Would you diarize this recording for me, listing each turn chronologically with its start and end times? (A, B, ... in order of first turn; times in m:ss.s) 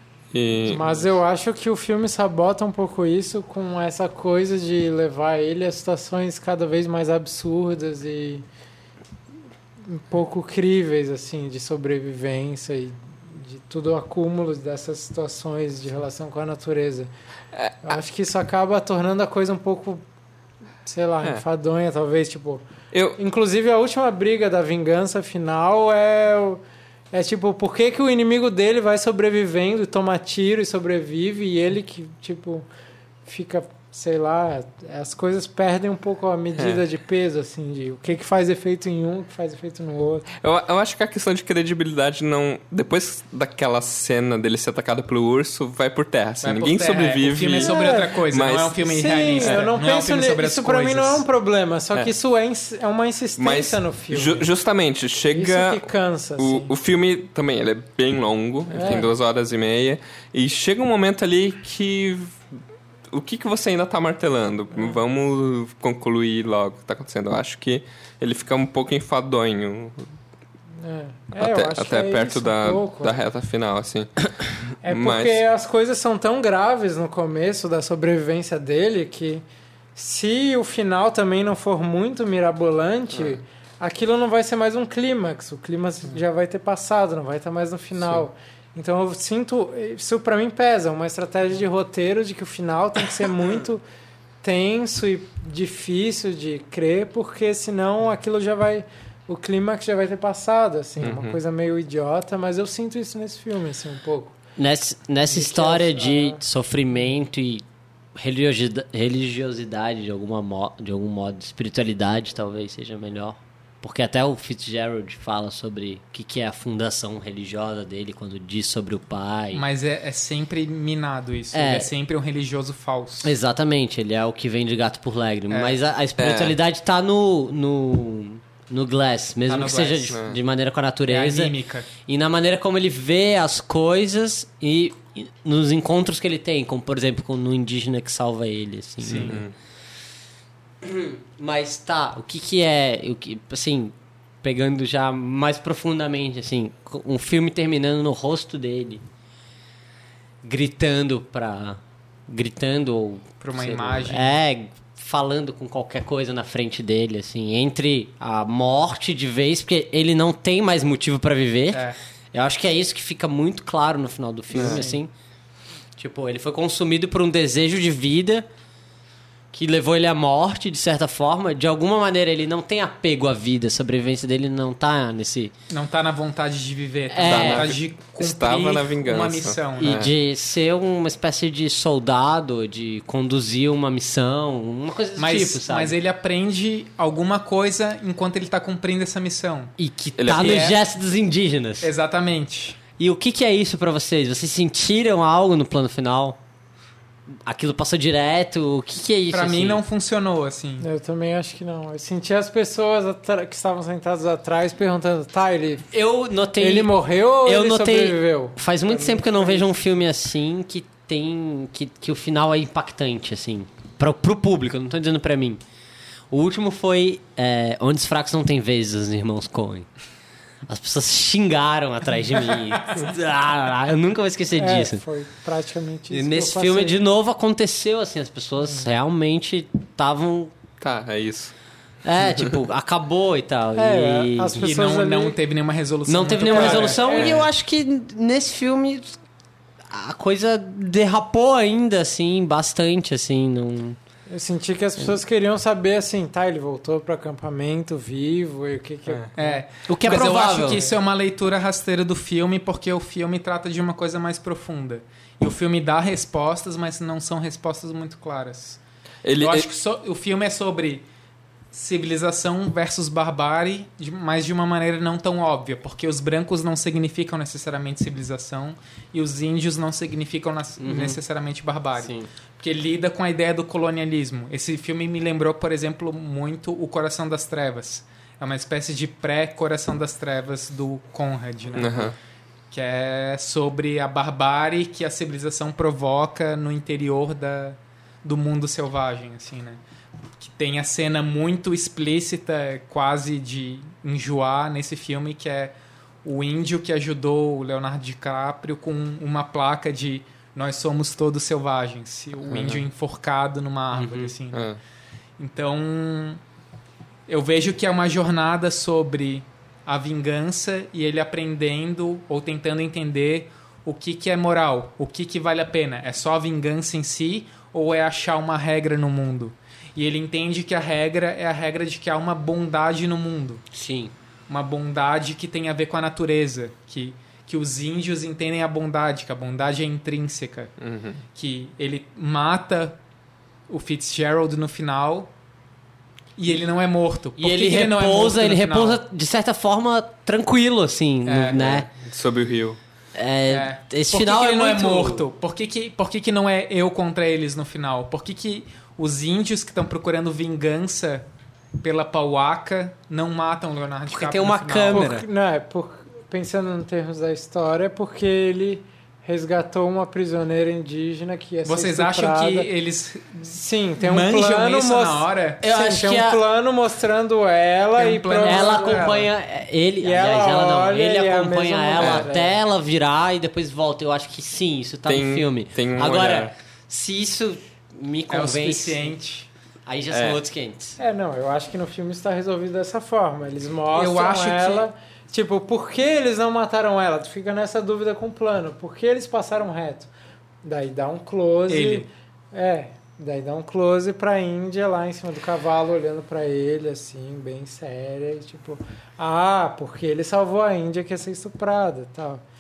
0:00.3-0:00.9 A
0:00.6-0:08.5 B
0:09.8-0:17.1 B
0:17.8-0:20.0 B
0:20.8-0:22.6 B
0:22.9-0:23.2 A
0:23.2-0:32.6 B
0:33.2-0:40.3 B
0:36.6-0:36.8 A
0:40.4-0:49.7 A
0:46.4-0:51.2 C
0:47.6-0:48.1 B
0:48.8-0:54.5 B
0:53.4-0:55.8 A
0:55.3-0:56.7 B
0:56.4-1:02.4 A
0:58.7-0:59.1 B
1:03.1-1:10.0 A
1:10.8-1:13.2 B
1:11.4-1:15.4 A
1:14.8-1:19.4 B
1:19.9-1:33.8 B
1:34.4-1:44.3 B
1:41.0-1:41.4 A
1:44.6-1:47.6 D
1:45.3-1:46.4 B
1:48.2-1:59.6 D
1:59.5-2:03.3 C
2:01.5-2:01.9 D
2:03.2-2:19.5 D
2:05.5-2:05.8 C
2:06.2-2:06.6 A
2:09.5-2:10.2 C
2:10.1-2:10.4 A
2:11.1-2:11.9 C
2:19.0-2:19.4 C
2:19.1-2:19.5 A
2:20.8-2:29.0 D
2:30.4-2:45.1 D
2:33.4-2:34.4 C
2:41.7-2:42.0 C
2:44.5-2:44.9 A
2:44.5-2:45.0 C
2:46.0-2:48.5 D
2:49.5-2:55.5 D
2:55.7-3:00.0 C
2:57.1-2:57.7 D
2:57.2-3:00.1 A
2:59.8-3:05.9 D
3:05.2-3:09.7 C
3:09.8-3:11.9 D
3:10.2-3:10.7 A
3:10.3-3:10.8 C
3:11.8-3:12.8 C
3:13.0-3:16.4 D
3:17.4-3:19.8 D
3:19.3-3:20.9 C
3:20.8-3:25.9 B
3:25.9-3:26.9 D
3:26.6-3:29.7 B
3:27.4-3:35.6 D
3:36.3-3:39.9 D
3:40.6-3:45.0 D
3:44.5-3:47.0 B
3:46.1-3:50.5 D
3:48.6-3:48.9 B
3:50.8-3:51.5 A
3:52.0-3:54.7 D
3:52.2-3:52.6 A
3:53.8-3:55.4 B
3:54.6-3:57.1 C
3:56.1-3:59.2 D
3:56.5-3:57.4 B
3:57.1-3:57.4 A
3:59.9-4:04.0 D
4:04.3-4:09.6 B
4:09.4-4:18.8 C
4:09.9-4:10.8 D
4:19.2-4:19.7 A
4:19.4-4:21.0 C
4:21.7-4:42.1 C
4:30.8-4:31.2 D
4:32.0-4:32.3 D
4:41.8-4:42.2 A
4:42.7-4:49.8 C
4:50.4-5:04.7 C
5:02.5-5:02.8 A
5:03.9-5:04.3 D
5:04.5-5:04.8 A
5:05.4-5:06.4 C
5:07.3-5:23.6 C
5:23.7-5:24.1 D
5:24.5-5:30.7 C
5:30.8-5:31.2 A
5:31.3-5:33.0 C
5:33.7-5:35.3 C
5:36.4-5:39.0 C
5:37.4-5:41.9 D
5:41.2-5:41.7 C
5:41.6-5:42.8 A
5:43.1-5:45.2 D
5:43.5-5:51.3 C
5:51.8-5:55.1 C
5:54.1-5:55.2 D
5:54.9-6:02.7 B
6:01.6-6:05.6 C
6:03.4-6:09.1 B
6:05.6-6:06.4 D
6:07.9-6:09.3 C
6:08.4-6:19.1 D
6:10.0-6:12.6 B
6:12.0-6:12.2 A
6:15.1-6:16.5 A
6:18.3-6:19.5 C
6:19.8-6:21.0 D
6:20.1-6:20.4 A
6:21.0-6:30.1 B
6:23.9-6:24.8 C
6:30.6-6:42.4 B
6:31.7-6:32.1 C